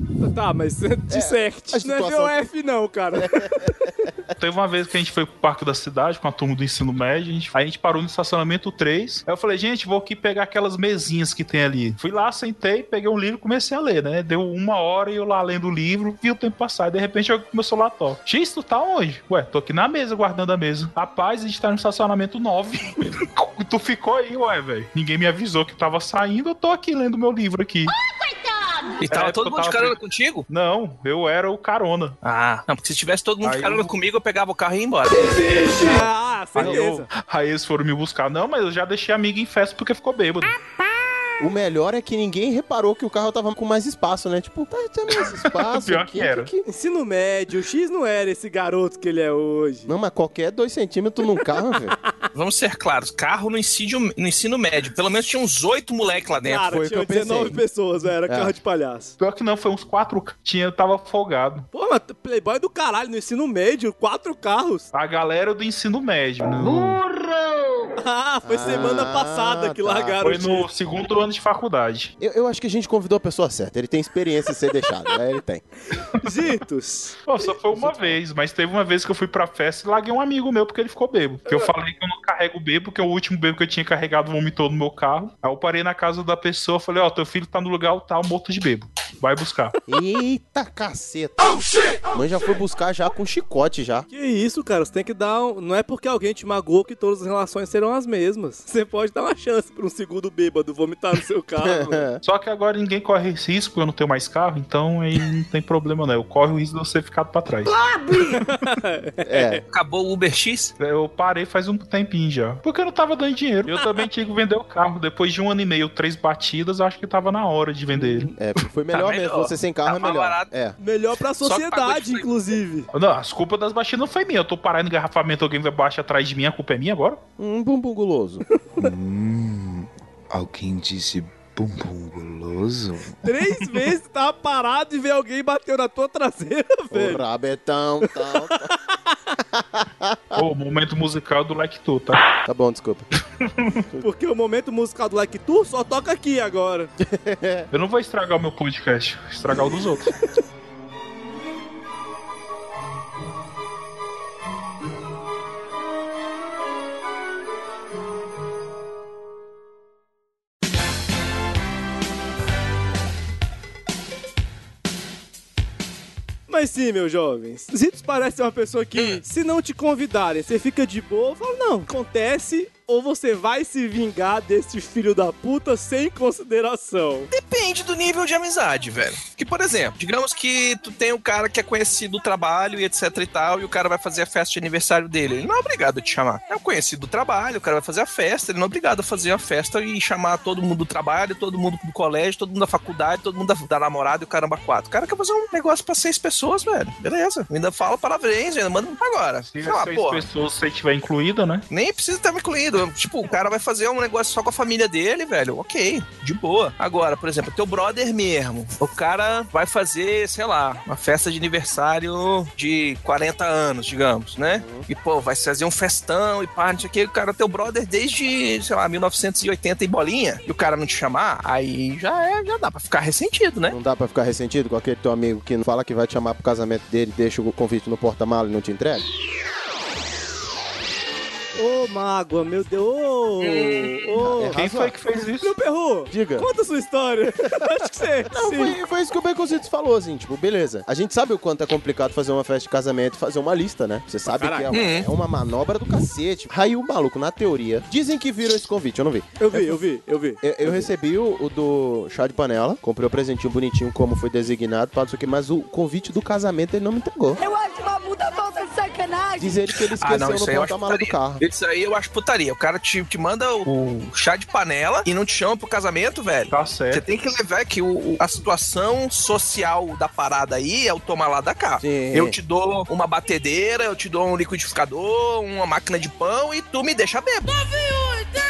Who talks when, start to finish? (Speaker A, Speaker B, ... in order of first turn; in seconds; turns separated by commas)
Speaker A: 0.2-3.7, Speaker B: 1.1-2.4, Speaker B: 3.1-4.1, Speaker C: 4.4-27.9, Speaker D: 29.0-30.4, Speaker C: 29.1-29.9, Speaker C: 30.5-32.1, Speaker D: 32.2-35.9, Speaker C: 33.4-33.9, Speaker A: 35.2-37.1, Speaker C: 35.8-40.5, Speaker B: 41.4-46.6, Speaker C: 45.2-46.5, Speaker A: 46.6-49.9, Speaker B: 49.9-51.9, Speaker D: 52.3-56.7, Speaker A: 56.4-59.1, Speaker B: 56.6-57.6, Speaker B: 58.3-58.5, Speaker C: 59.2-61.6, Speaker A: 61.7-64.9, Speaker C: 64.9-67.0, Speaker A: 68.0-70.7, Speaker B: 68.4-70.3, Speaker C: 70.2-72.1, Speaker B: 72.2-75.6, Speaker C: 76.0-76.5, Speaker A: 76.2-77.5, Speaker C: 77.3-89.8, Speaker B: 77.8-78.2, Speaker B: 89.9-94.1, Speaker A: 94.1-102.0, Speaker B: 101.6-102.2, Speaker C: 102.2-107.7, Speaker A: 108.3-109.6, Speaker B: 109.2-109.6, Speaker D: 109.7-110.7, Speaker C: 110.8-118.3, Speaker A: 117.9-118.3, Speaker B: 118.3-120.8, Speaker D: 118.9-120.5, Speaker A: 120.8-122.9, Speaker D: 121.4-122.3, Speaker C: 122.9-127.2, Speaker B: 127.4-128.4, Speaker E: 128.8-133.2, Speaker A: 133.2-137.2, Speaker B: 136.9-138.7, Speaker A: 138.1-139.2, Speaker B: 139.5-140.4, Speaker C: 140.3-142.3, Speaker B: 142.4-143.1, Speaker C: 143.4-143.8, Speaker A: 144.0-146.9, Speaker B: 147.0-147.7, Speaker C: 147.7-150.1, Speaker A: 166.5-177.3, Speaker D: 168.9-169.2, Speaker D: 177.3-200.2, Speaker C: 199.5-201.6, Speaker D: 201.7-223.8, Speaker B: 214.6-214.8, Speaker B: 223.7-229.1, Speaker A: 231.6-234.6, Speaker D: 233.4-233.9, Speaker B: 234.2-234.9, Speaker C: 234.5-235.5, Speaker A: 235.4-238.8, Speaker B: 236.1-236.5, Speaker B: 238.3-249.6, Speaker A: 244.3-244.7, Speaker D: 244.7-245.1, Speaker A: 249.4-250.8, Speaker B: 250.4-257.4, Speaker F: 257.4-259.6, Speaker B: 259.4-261.4, Speaker D: 260.0-277.7, Speaker C: 266.5-267.0, Speaker B: 271.8-272.4